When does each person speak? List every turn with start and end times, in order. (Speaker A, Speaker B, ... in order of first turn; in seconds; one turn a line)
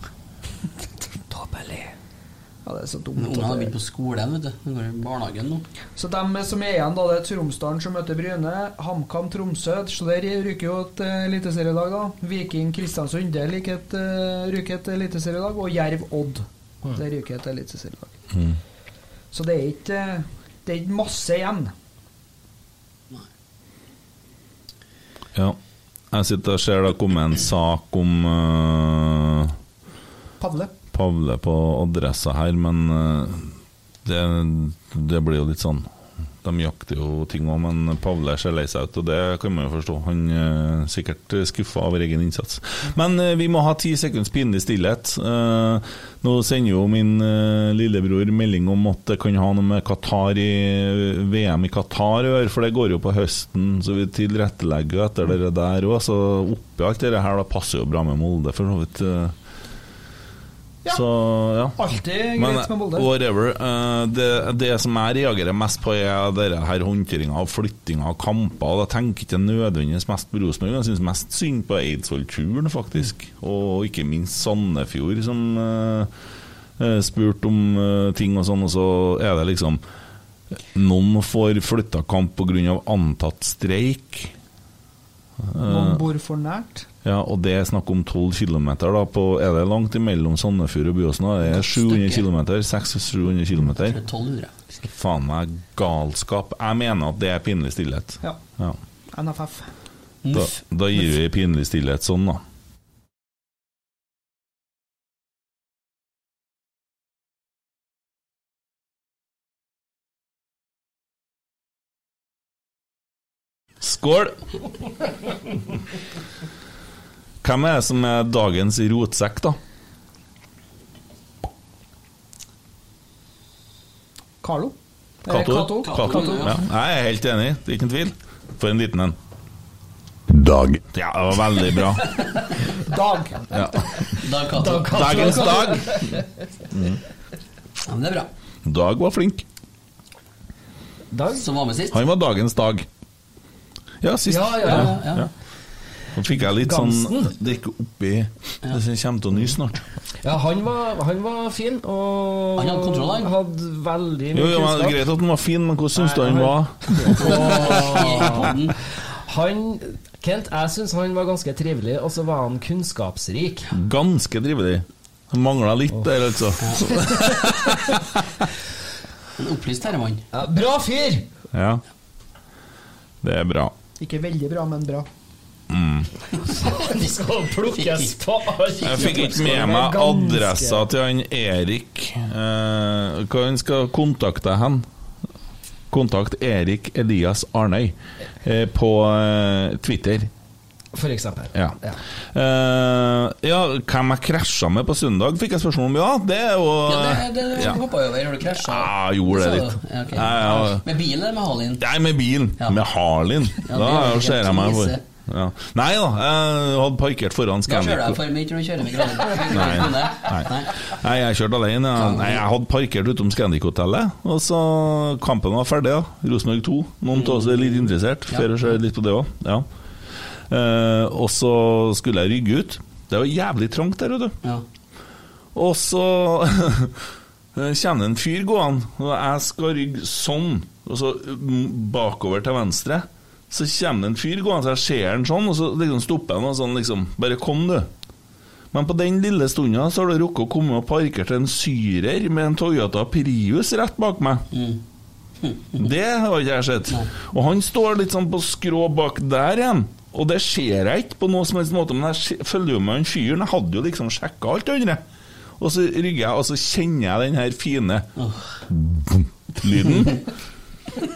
Speaker A: 1.3-1.9
Speaker B: 2.6-3.7
Speaker C: 3.2-5.7
Speaker B: 6.0-18.1
Speaker D: 18.3-18.6
Speaker B: 19.3-21.7
Speaker D: 26.1-29.6
Speaker B: 30.4-30.7
Speaker D: 30.9-33.5
Speaker D: 34.0-35.9
Speaker D: 36.4-59.4
Speaker D: 60.9-61.8
Speaker B: 61.8-63.1
Speaker D: 62.4-76.1
Speaker D: 76.8-79.8
Speaker D: 80.7-84.3
Speaker D: 85.5-86.0
Speaker B: 85.6-86.9
Speaker D: 87.0-94.0
Speaker C: 91.8-92.2
Speaker C: 93.8-94.6
Speaker D: 94.8-98.8
Speaker B: 99.1-99.7
Speaker C: 100.2-100.6
Speaker D: 100.3-102.4
Speaker D: 113.8-114.4
Speaker D: 117.4-119.6
Speaker B: 124.4-126.5
Speaker D: 125.3-129.2
Speaker C: 125.8-126.6
Speaker D: 130.3-132.2
Speaker B: 132.7-133.8
Speaker D: 133.5-134.1
Speaker C: 134.2-135.5
Speaker A: 134.5-136.2
Speaker D: 134.9-137.0
Speaker C: 137.8-138.3
Speaker D: 138.7-139.4
Speaker A: 141.1-141.4
Speaker C: 141.3-142.0
Speaker D: 141.9-142.9
Speaker D: 144.0-145.3
Speaker A: 144.3-145.1
Speaker C: 144.6-145.3
Speaker D: 146.2-149.8
Speaker A: 146.5-147.3
Speaker A: 150.2-155.0
Speaker C: 152.6-153.3
Speaker D: 154.3-157.4
Speaker A: 156.0-158.6
Speaker C: 157.1-158.8
Speaker A: 159.2-163.7
Speaker D: 163.7-168.3
Speaker C: 166.6-166.9
Speaker A: 166.9-167.6
Speaker C: 169.4-170.2
Speaker A: 170.3-171.3
Speaker D: 171.5-171.8
Speaker D: 173.2-173.7
Speaker B: 174.0-175.1
Speaker D: 175.7-176.1
Speaker C: 176.4-176.8
Speaker A: 176.4-180.9
Speaker C: 177.7-178.2
Speaker D: 178.8-184.9
Speaker C: 178.8-179.2
Speaker D: 185.9-190.3
Speaker A: 190.9-192.0
Speaker D: 192.3-197.8
Speaker C: 196.9-201.8
Speaker D: 198.6-200.8
Speaker D: 201.8-208.2
Speaker C: 203.6-205.0
Speaker C: 207.7-210.9
Speaker D: 209.5-219.7
Speaker C: 212.0-212.4
Speaker C: 217.1-218.5
Speaker D: 220.5-224.3
Speaker D: 225.6-227.0
Speaker D: 227.6-237.9
Speaker D: 238.7-244.5
Speaker C: 244.5-244.8
Speaker C: 245.4-245.9
Speaker D: 245.8-255.0
Speaker D: 255.6-258.1
Speaker C: 258.2-258.6
Speaker D: 258.7-260.2